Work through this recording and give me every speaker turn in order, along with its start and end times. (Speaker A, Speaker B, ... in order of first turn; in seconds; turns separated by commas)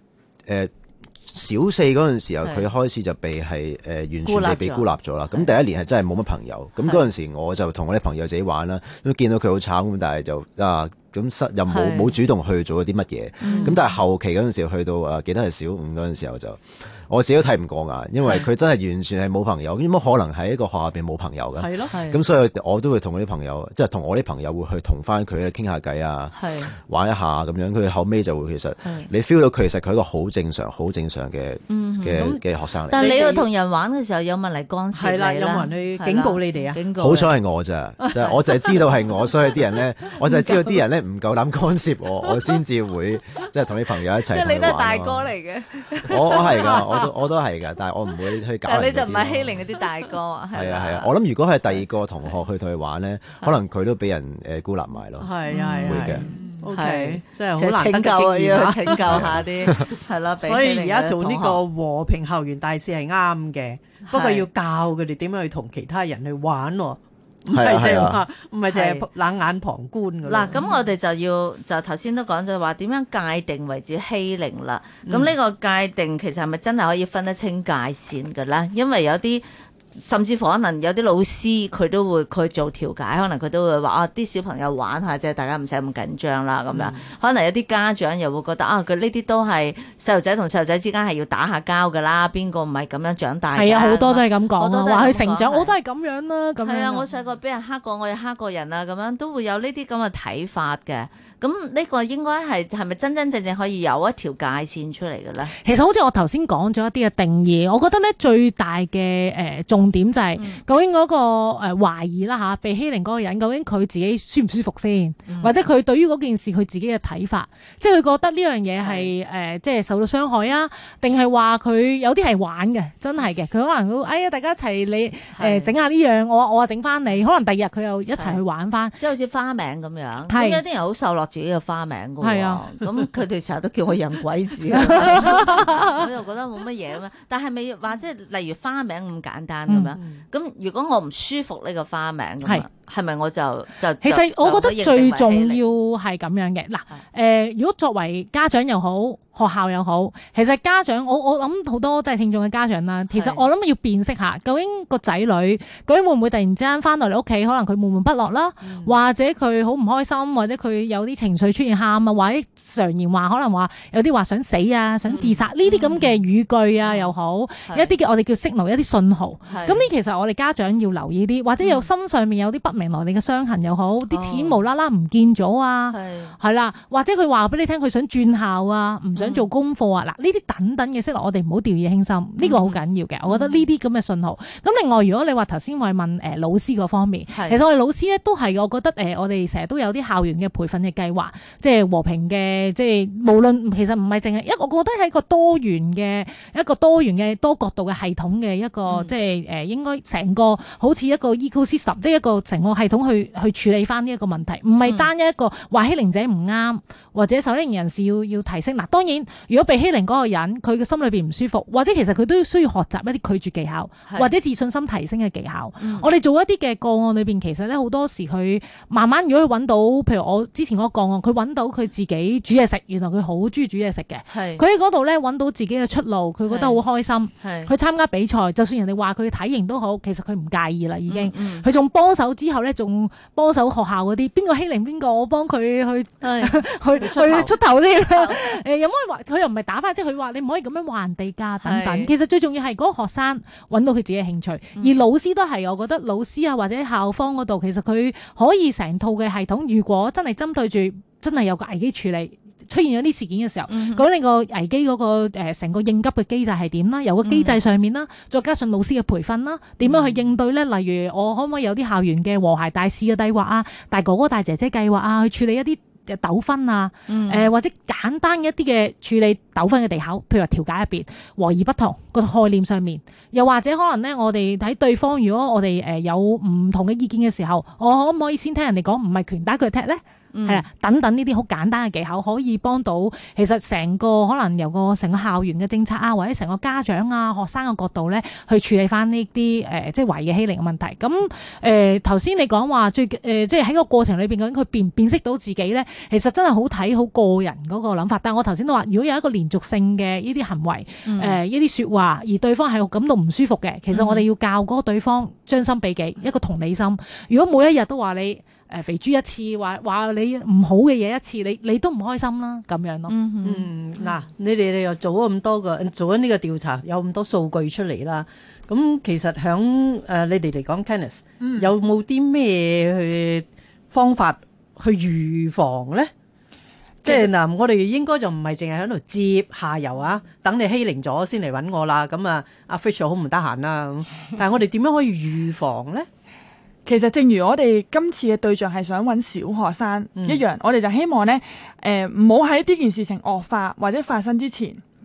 Speaker A: 0.5-33.2, Speaker B: 4.2-5.5, Speaker B: 11.7-12.1, Speaker B: 13.4-13.8, Speaker C: 21.6-21.9, Speaker B: 21.9-22.2, Speaker B: 26.3-26.7, Speaker B: 28.8-29.1, Speaker B: 31.7-37.3, Speaker C: 33.0-33.5, Speaker C: 34.9-36.8, Speaker A: 37.0-45.3, Speaker B: 38.0-38.8, Speaker B: 40.1-40.8, Speaker B: 44.2-47.1, Speaker A: 46.0-49.7, Speaker B: 48.6-51.1, Speaker A: 50.5-55.3, Speaker C: 55.2-70.6, Speaker B: 55.5-61.6, Speaker A: 55.8-56.2, Speaker A: 59.1-59.9, Speaker B: 64.0-64.5, Speaker A: 67.5-68.2, Speaker B: 68.7-69.0, Speaker B: 70.2-95.7, Speaker C: 75.0-75.3, Speaker C: 86.7-87.0, Speaker D: 93.5-97.0, Speaker B: 96.6-105.5, Speaker D: 105.6-129.0, Speaker B: 110.3-110.6, Speaker B: 115.3-115.6, Speaker B: 118.8-119.1, Speaker B: 125.3-125.7, Speaker B: 129.0-145.6, Speaker D: 130.3-130.6, Speaker D: 132.2-132.7, Speaker D: 134.7-136.0, Speaker D: 144.0-313.1, Speaker B: 153.1-153.4, Speaker C: 158.6-158.9, Speaker B: 165.1-166.2, Speaker B: 166.8-167.1, Speaker B: 167.7-167.9, Speaker B: 169.4-169.9, Speaker B: 171.6-171.9, Speaker B: 174.1-174.6, Speaker B: 175.9-176.3, Speaker B: 179.2-179.5, Speaker B: 182.4-183.7, Speaker B: 187.3-187.6, Speaker B: 198.9-199.1, Speaker B: 204.8-205.1, Speaker B: 214.1-214.3, Speaker B: 215.8-216.1, Speaker B: 224.3-224.6, Speaker B: 226.5-226.8, Speaker B: 227.3-227.7, Speaker B: 231.1-231.7, Speaker B: 236.2-236.6, Speaker C: 237.0-237.4, Speaker B: 238.1-238.5, Speaker B: 241.6-242.1, Speaker B: 244.8-245.0, Speaker B: 253.7-254.1, Speaker B: 257.2-257.6, Speaker B: 259.8-260.2, Speaker B: 267.1-267.5, Speaker B: 280.3-280.6, Speaker B: 301.0-301.4, Speaker B: 303.9-304.2, Speaker B: 313.1-313.7, Speaker C: 313.4-326.1, Speaker E: 321.4-321.7, Speaker C: 327.0-336.1, Speaker E: 327.0-327.3, Speaker E: 336.9-344.8, Speaker C: 340.1-340.4